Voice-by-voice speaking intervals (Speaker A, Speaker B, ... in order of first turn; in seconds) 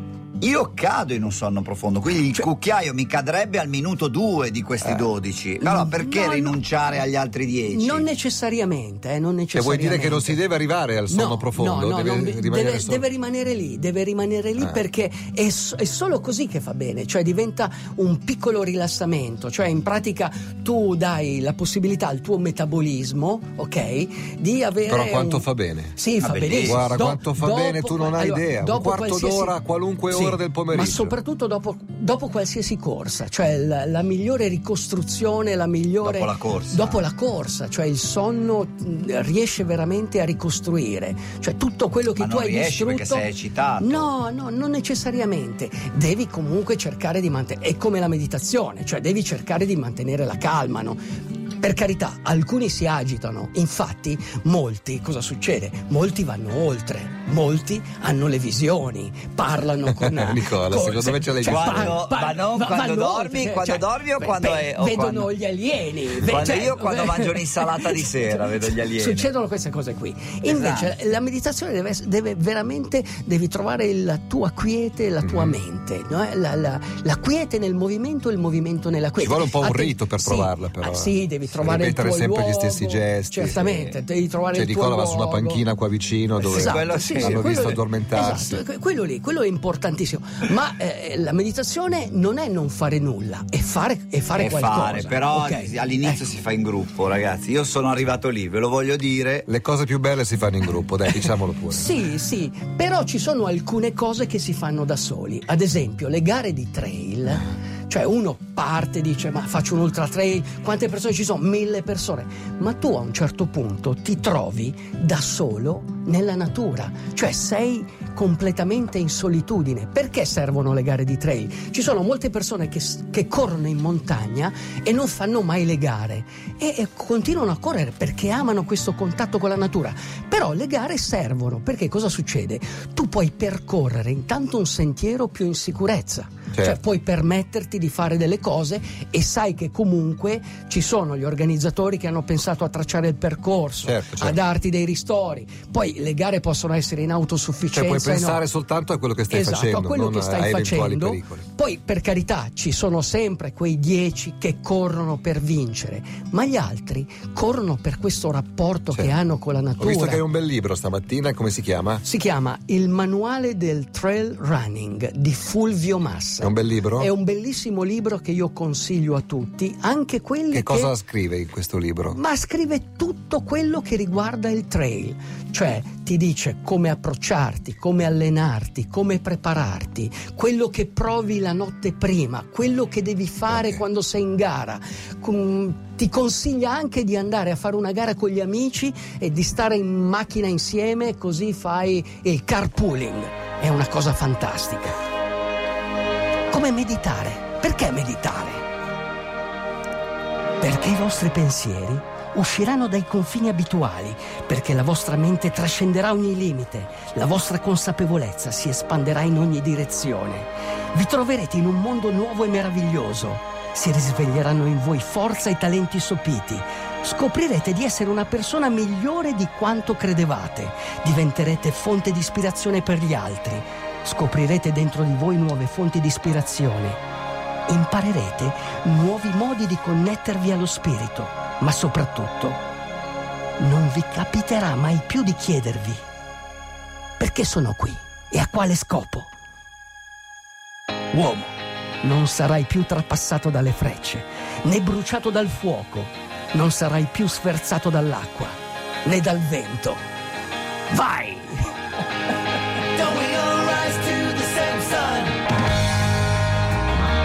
Speaker A: 0.4-8.0, 26.2-26.9, 36.0-37.0, 42.2-44.1, 61.4-65.3, 66.2-69.3, 70.4-71.0, 86.4-87.6, 94.4-99.5
Speaker B: 5.6-6.6, 7.7-10.4, 11.1-29.6, 30.1-43.3, 43.8-51.0, 51.6-85.6, 86.4-96.2, 101.7-148.4, 149.3-160.2, 162.0-170.9, 172.1-194.9, 196.5-198.7, 200.6-227.0, 227.7-232.6, 233.6-236.0, 237.2-239.3, 241.1-250.0, 250.9-251.7, 252.9-255.4
Speaker C: 9.5-13.0, 24.9-25.9, 26.6-31.1, 60.0-62.0, 75.2-75.5, 79.2-83.9, 84.5-88.6, 99.5-101.9, 143.8-144.4, 147.7-151.4, 159.8-162.0, 166.4-167.1, 170.5-172.2, 183.5-183.8